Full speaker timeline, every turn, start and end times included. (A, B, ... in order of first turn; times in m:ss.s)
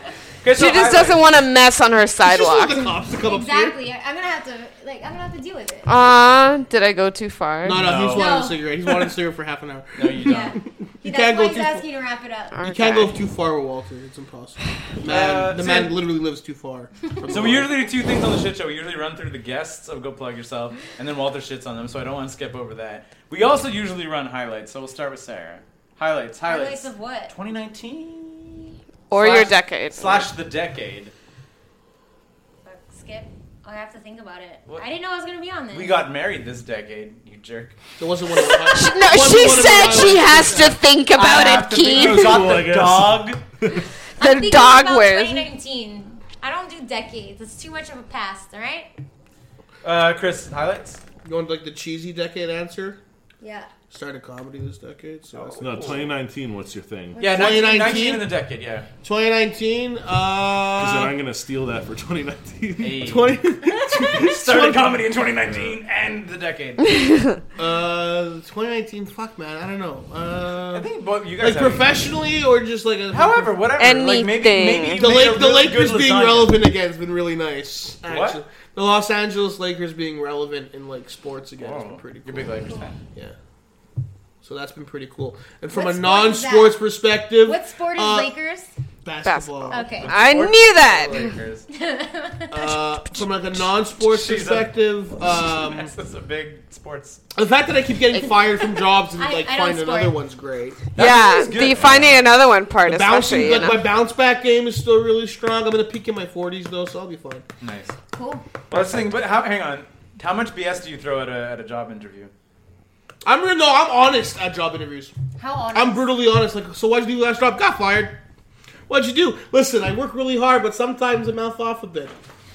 0:00.4-0:01.3 A
0:00.5-0:02.9 B
0:02.2-0:03.8 C
0:03.2-0:05.9 D
0:05.8-0:07.9 B
0:07.6-0:11.8 C
0:07.7-0:08.3 A
0:08.1-0:08.6 D
0:10.0-0:10.6 A
0:10.2-0:12.6 D
0:12.5-0:13.2 B
0:12.6-0:17.7 C
0:15.0-0:16.0 A
0:17.3-0:31.1 A
0:26.4-0:27.3 D
0:29.1-0:30.3 B
0:32.6-0:36.0 D
0:35.7-0:37.8 A
0:38.0-0:40.8 C
0:38.4-0:42.4 B
0:41.1-0:43.4 A
0:41.6-0:43.8 E
0:44.2-0:45.4 B
0:44.2-0:48.9 D
0:49.8-0:51.0 A
0:51.2-0:53.0 C
0:53.4-0:53.7 D
0:53.9-0:56.0 C
0:55.4-0:56.0 A
0:55.6-0:57.2 E
0:57.2-0:58.0 D
0:57.2-0:58.9 A
0:57.2-0:58.3 C
0:59.0-1:01.2 C
1:00.8-1:03.1 E
1:02.8-1:07.0 A
1:03.0-1:04.9 C
1:05.4-1:05.8 E
1:06.9-1:07.3 B
1:07.6-1:13.6 C
1:10.7-1:11.9 A
1:13.1-1:16.6 A
1:13.8-1:15.0 B
1:14.9-1:22.5 C
1:18.1-1:18.4 A
1:21.6-1:23.0 A
1:24.4-1:28.3 C
1:25.7-1:26.8 D
1:27.4-1:28.7 D
1:29.0-1:30.0 C
1:29.2-1:31.4 B
1:29.7-1:30.1 D
1:30.0-1:31.7 A
1:31.7-1:32.8 D
1:32.5-1:35.9 C
1:34.0-1:34.8 A
1:35.3-1:37.2 A
1:37.3-1:40.9 C
1:39.1-1:40.2 D
1:40.9-1:42.4 A
1:41.0-1:43.9 B
1:42.8-1:47.4 C
1:47.6-1:48.0 A
1:48.1-1:48.5 D
1:48.7-1:52.3 A
1:53.2-1:55.1 C
1:55.4-1:56.1 D
1:55.7-1:58.2 C
1:58.9-2:02.1 C